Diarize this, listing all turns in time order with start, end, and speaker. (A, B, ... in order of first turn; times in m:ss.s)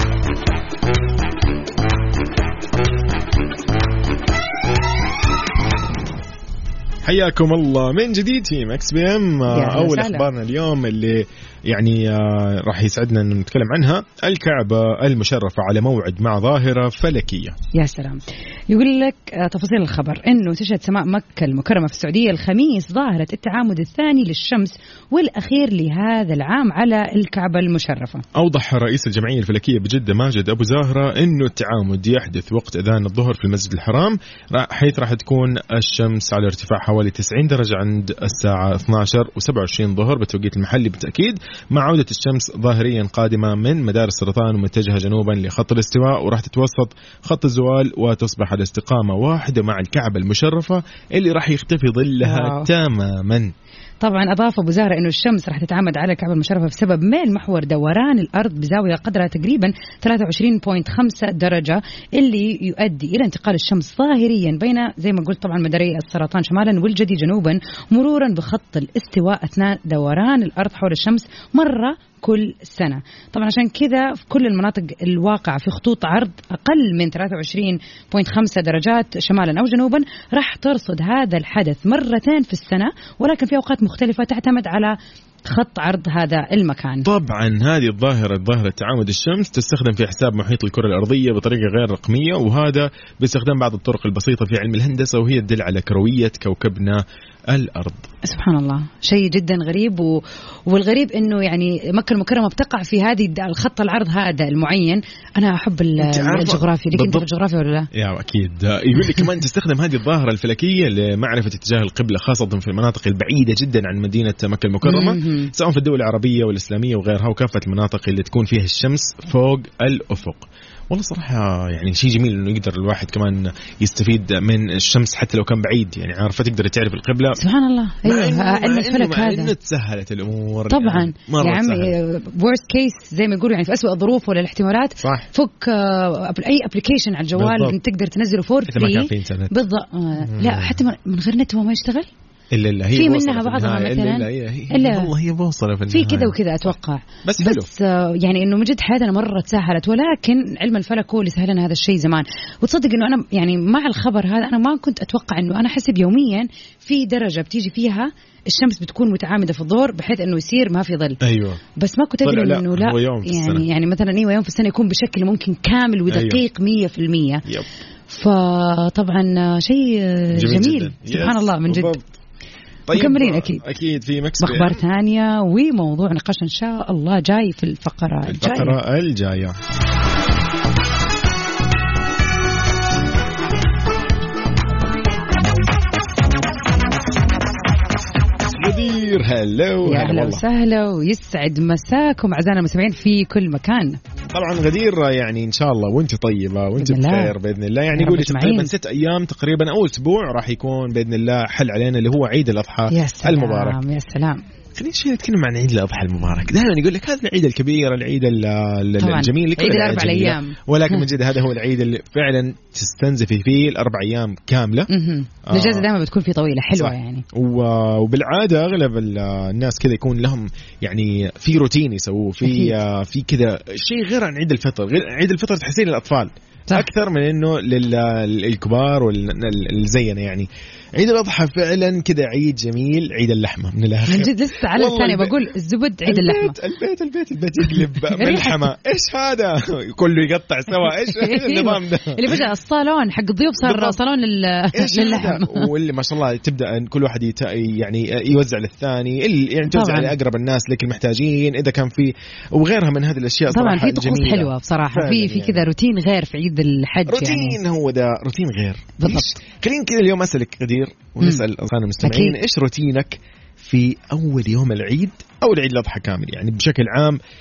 0:07.0-0:17.6 A
0:09.5-0:10.3 B
0:17.7-0:28.2 B
0:28.4-0:53.5 A
0:52.2-0:52.7 B
0:54.0-1:27.1 B
1:27.0-1:38.0 A
1:38.2-1:47.9 B
1:46.0-1:47.3 A
1:47.9-2:07.4 A
1:54.8-1:55.5 B
2:07.4-2:09.5 B
2:08.0-2:11.9 A
2:10.7-2:22.1 B
2:15.0-2:15.3 A
2:17.4-2:17.8 A
2:18.7-2:19.5 A
2:20.2-2:20.8 A
2:22.5-2:26.4 A
2:23.0-2:25.1 B
2:25.9-2:41.2 B
2:27.2-2:27.7 A
2:41.2-2:41.6 A
2:41.8-2:47.4 B
2:42.2-2:43.7 A
2:46.1-2:46.4 A
2:48.1-2:51.9 B
2:50.4-2:52.1 A
2:52.9-2:54.8 A
2:52.9-2:53.6 B
2:54.4-2:58.8 B
2:58.3-2:59.6 A
3:08.4-3:10.4 A
3:09.8-3:14.0 B
3:14.3-3:23.8 A
3:16.8-3:17.4 B
3:17.9-3:18.7 B
3:22.9-3:24.4 B
3:24.8-3:34.9 A
3:29.0-3:31.0 B
3:34.9-3:37.3 B
3:35.5-3:35.8 A
3:36.8-3:55.4 A
3:42.4-3:42.8 B
3:54.1-3:56.6 B
3:56.0-4:02.5 A
3:57.6-3:58.7 B
4:00.9-4:05.7 B
4:03.6-4:04.0 A
4:04.7-4:15.7 A
4:09.7-4:10.2 B
4:13.5-4:17.6 B
4:17.1-4:27.2 A
4:19.0-4:19.4 B
4:22.0-4:22.4 B